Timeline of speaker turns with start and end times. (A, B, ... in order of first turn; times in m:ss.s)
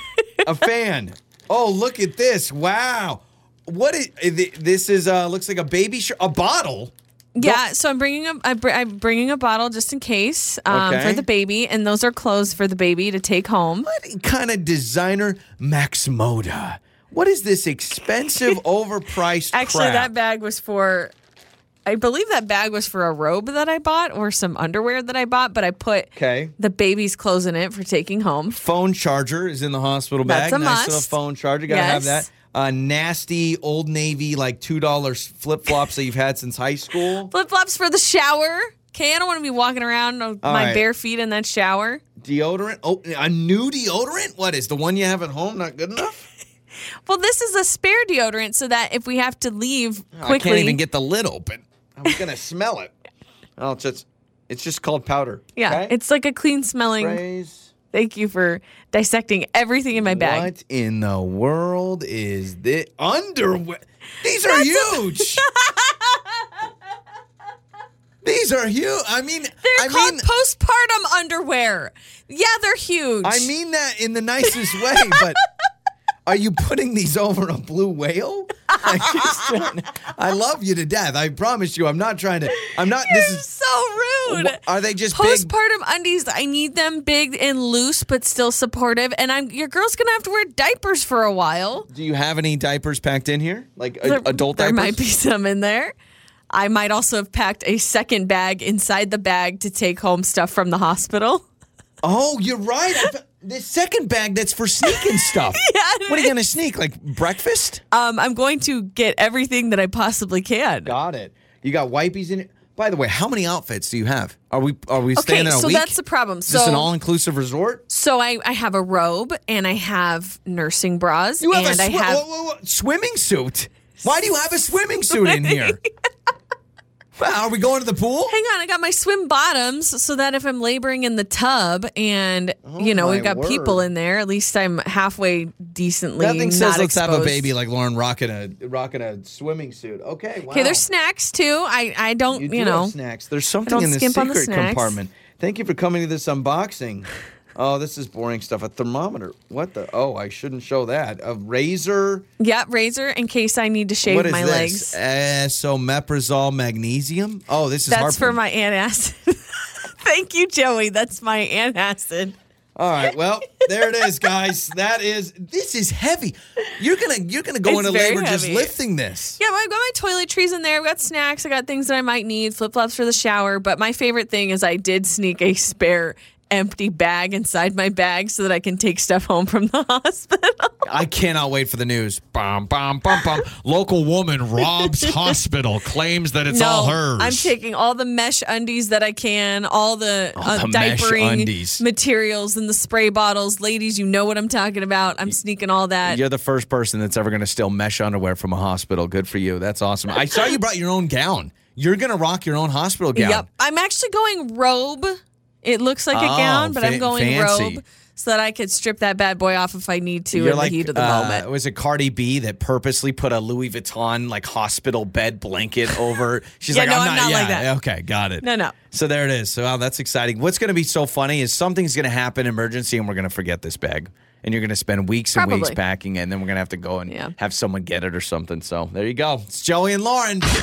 0:00.4-0:07.6 A
0:07.4-0:13.9 B
0:10.7-0:11.3 A
0:13.8-0:20.1 A
0:19.5-0:21.1 B
0:21.9-0:28.6 B
0:26.2-0:26.5 A
0:28.5-0:37.3 A
0:30.2-0:31.1 B
0:31.7-0:32.3 B
0:37.3-0:42.0 B
0:40.4-0:40.8 A
0:42.2-0:46.3 A
0:47.1-0:50.8 B
0:50.2-0:52.9 A
0:53.6-0:56.0 A
0:55.6-0:57.2 B
0:57.0-0:57.7 A
0:57.9-1:00.5 B
0:59.9-1:05.5 A
1:04.5-1:06.4 B
1:08.2-1:10.3 A
1:09.6-1:13.5 B
1:13.2-1:15.4 A
1:14.9-1:15.2 B
1:16.3-1:23.5 A
1:18.7-1:19.5 B
1:22.6-1:24.6 B
1:24.3-1:25.5 A
1:25.1-1:31.9 B
1:31.9-1:35.0 A
1:34.0-1:35.9 B
1:36.5-1:41.4 B
1:42.0-1:47.8 A
1:45.6-1:46.3 B
1:47.9-1:50.9 B
1:50.8-1:57.8 A
1:55.2-1:56.9 B
1:57.9-2:02.2 B
2:01.4-2:05.8 A
2:05.1-2:05.9 B
2:07.2-2:08.4 A
2:08.3-2:17.5 B
2:12.6-2:13.8 A
2:16.2-2:20.8 A
2:20.5-2:23.0 B
2:22.3-2:32.3 A
2:23.7-2:25.0 B
2:32.4-2:35.0 B
2:34.0-2:38.4 A
2:37.9-2:42.4 B
2:42.8-2:49.4 A
2:47.6-2:48.7 B
2:49.4-3:00.7 B
3:00.8-3:07.5 A
3:06.5-3:16.2 B
3:10.4-3:11.8 A
3:16.0-3:23.5 A
3:23.2-3:31.5 B
3:26.1-3:27.8 A
3:30.3-3:50.5 A
3:36.7-3:37.7 B
3:38.4-3:38.8 B
3:45.4-3:45.8 B
3:47.1-3:47.3 B